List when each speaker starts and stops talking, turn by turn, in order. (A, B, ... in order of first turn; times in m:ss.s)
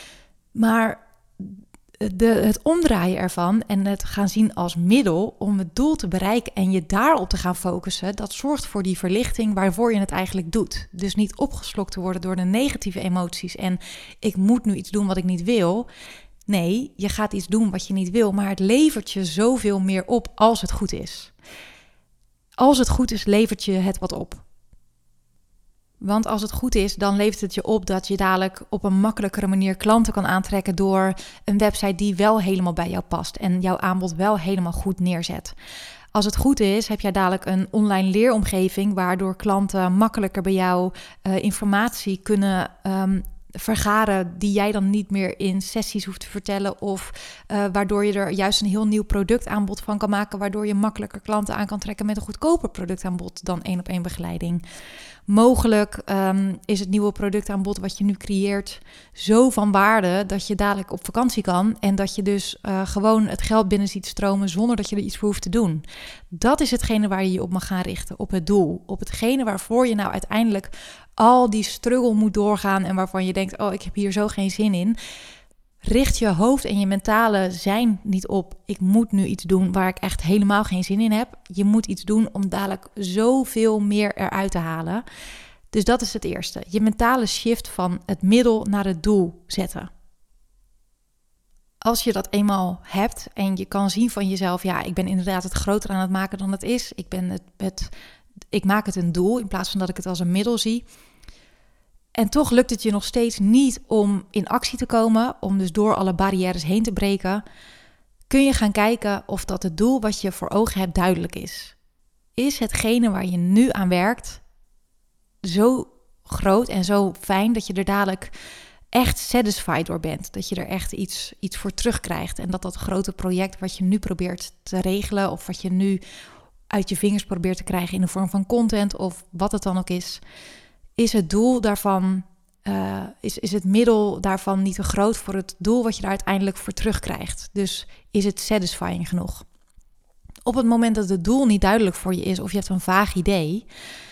0:00.5-0:15.9 A
0:16.5-0:21.3 A
0:22.6-0:24.4 A
0:26.0-0:35.5 A
0:36.1-0:54.6 A
0:55.3-1:15.0 A
1:15.8-1:25.0 A
1:25.7-1:29.9 A
1:31.8-1:37.9 A
1:38.5-1:40.8 A
1:42.1-1:47.4 A
1:48.3-1:51.7 A
1:52.4-1:54.4 A
1:55.4-1:58.3 A
1:58.9-2:06.0 A
2:06.7-2:10.2 A
2:11.0-2:19.4 A
2:20.4-2:23.6 A